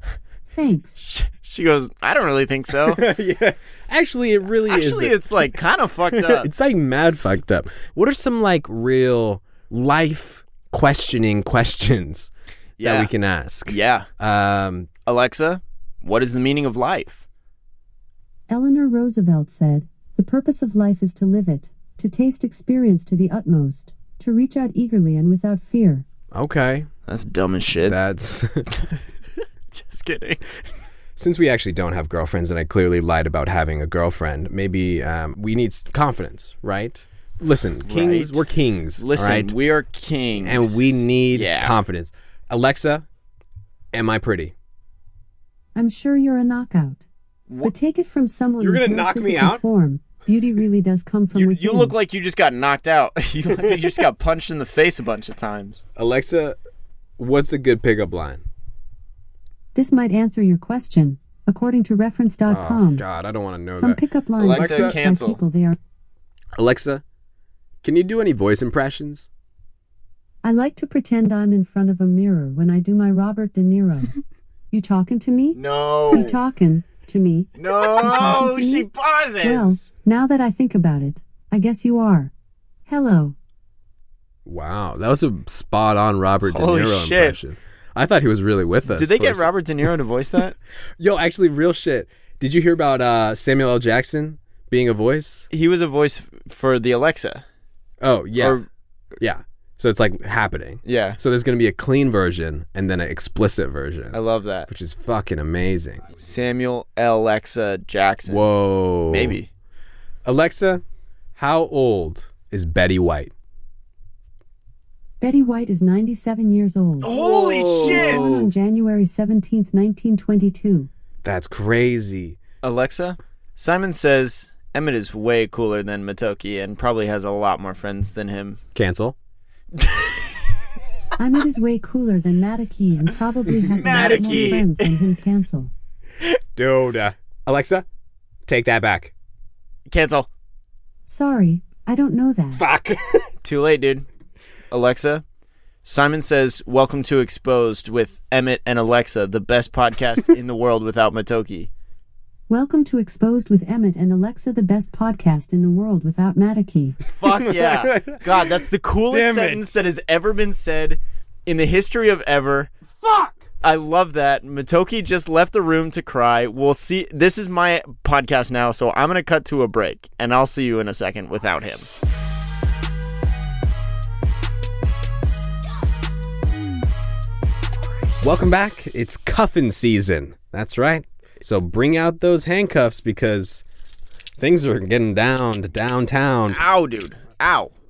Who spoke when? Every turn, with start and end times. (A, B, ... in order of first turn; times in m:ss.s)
0:00.5-0:01.0 A
0:01.0-0:03.1 B
0:02.9-0:05.2 C
0:04.7-0:06.5 B
0:06.1-0:12.3 C
0:12.8-0:13.1 B
0:12.8-0:14.9 C
0:13.7-0:14.1 B
0:15.1-0:17.2 B
0:18.5-0:26.1 A
0:26.3-0:26.9 C
0:27.1-0:28.0 B
0:27.8-0:28.7 C
0:29.7-0:30.4 B
0:31.2-0:39.5 C
0:37.8-0:38.4 B
0:39.0-0:41.8 B
0:40.4-0:43.1 C
0:43.9-0:44.5 C
0:45.8-0:47.1 A
0:47.6-0:52.0 A
0:48.6-0:49.6 C
0:51.3-0:55.8 B
0:56.0-0:56.6 C
0:57.2-0:58.4 C
0:59.8-1:03.0 A
1:02.5-1:05.0 C
1:03.8-1:05.8 A
1:04.4-1:05.4 B
1:06.6-1:07.0 C
1:07.8-1:09.3 C
1:10.4-1:14.1 A
1:14.7-1:18.9 A
1:15.6-1:16.4 B
1:17.6-1:19.8 B
1:19.4-1:22.3 A
1:22.9-1:23.4 A
1:24.5-1:29.5 C
1:26.5-1:27.4 B
1:28.9-1:30.6 B
1:31.0-1:35.5 C
1:35.5-1:37.4 B
1:38.0-1:38.6 C
1:38.4-1:38.7 B
1:39.2-1:46.1 C
1:40.8-1:41.2 B
1:44.1-1:44.7 B
1:46.2-1:49.5 B
1:48.3-1:49.4 C
1:50.2-1:50.8 C
1:51.4-1:53.3 C
1:55.2-1:57.1 A
1:57.0-1:58.4 B
1:57.1-1:58.5 C
1:57.8-2:00.9 A
2:01.2-2:02.4 C
2:02.6-2:08.6 B
2:08.8-2:09.2 C
2:09.8-2:10.2 B
2:11.2-2:15.7 A
2:13.6-2:14.6 C
2:13.8-2:15.0 B
2:16.6-2:17.9 C
2:18.5-2:19.1 C
2:19.9-2:20.3 B
2:21.1-2:22.6 A
2:22.6-2:23.3 C
2:23.4-2:24.1 B
2:24.7-2:25.2 B
2:25.8-2:31.7 B
2:32.5-2:37.0 A
2:37.1-2:42.7 B
2:37.3-2:39.8 C
2:43.0-2:43.4 C
2:43.6-2:51.9 B
2:58.2-3:03.6 C
3:04.4-3:06.6 C
3:06.5-3:07.7 B